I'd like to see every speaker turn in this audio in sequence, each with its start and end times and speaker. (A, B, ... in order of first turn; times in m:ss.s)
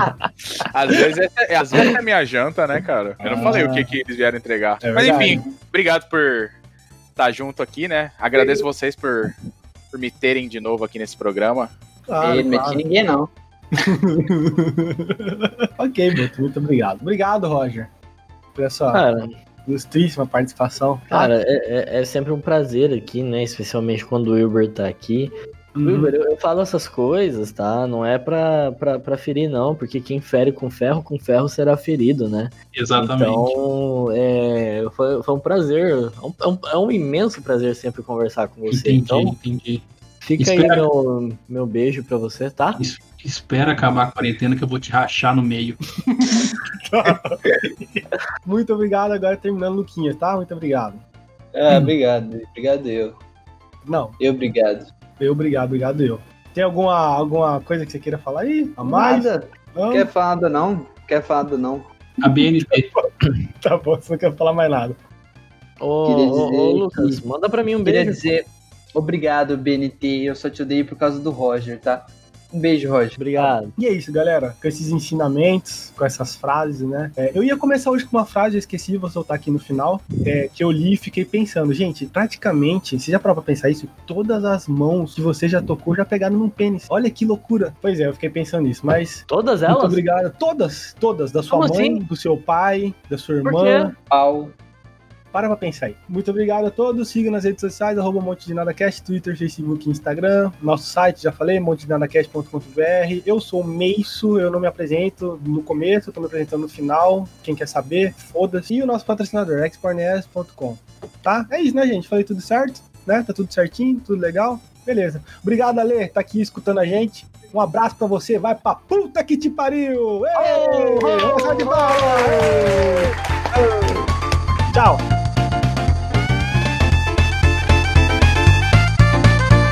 0:00.7-0:06.6 A
0:03.2-0:04.0 B
0:03.2-0:03.6 C
0:04.8-0:05.4 B
0:07.2-0:09.3 A
0:09.9-0:11.7 A
0:12.1-0:12.8 B
0:12.2-0:13.3 C
0:13.8-0:17.9 B
0:18.6-0:19.0 B
0:18.9-0:19.3 D
0:19.6-0:21.3 B
0:21.1-0:39.4 D
0:25.8-0:26.1 E
0:32.7-0:33.6 E
0:38.7-0:39.8 E
0:40.2-0:42.8 D
0:40.4-0:40.9 E
0:42.8-0:45.8 E
0:46.1-0:51.0 B
0:51.6-0:53.2 C
0:53.9-0:54.2 B
0:54.2-0:54.9 C
0:55.2-1:00.1 B
0:58.8-1:01.9 C
1:02.2-1:02.9 E
1:02.2-1:03.0 B
1:03.6-1:05.0 B
1:05.8-1:08.2 D
1:06.0-1:07.2 C
1:07.8-1:13.6 C
1:13.2-1:13.8 D
1:13.8-1:34.0 B
1:29.3-1:30.0 D
1:31.5-1:32.0 D
1:33.4-1:33.9 D
1:34.1-1:34.5 C
1:35.3-2:03.0 B
2:00.4-2:01.5 C
2:04.7-2:05.0 B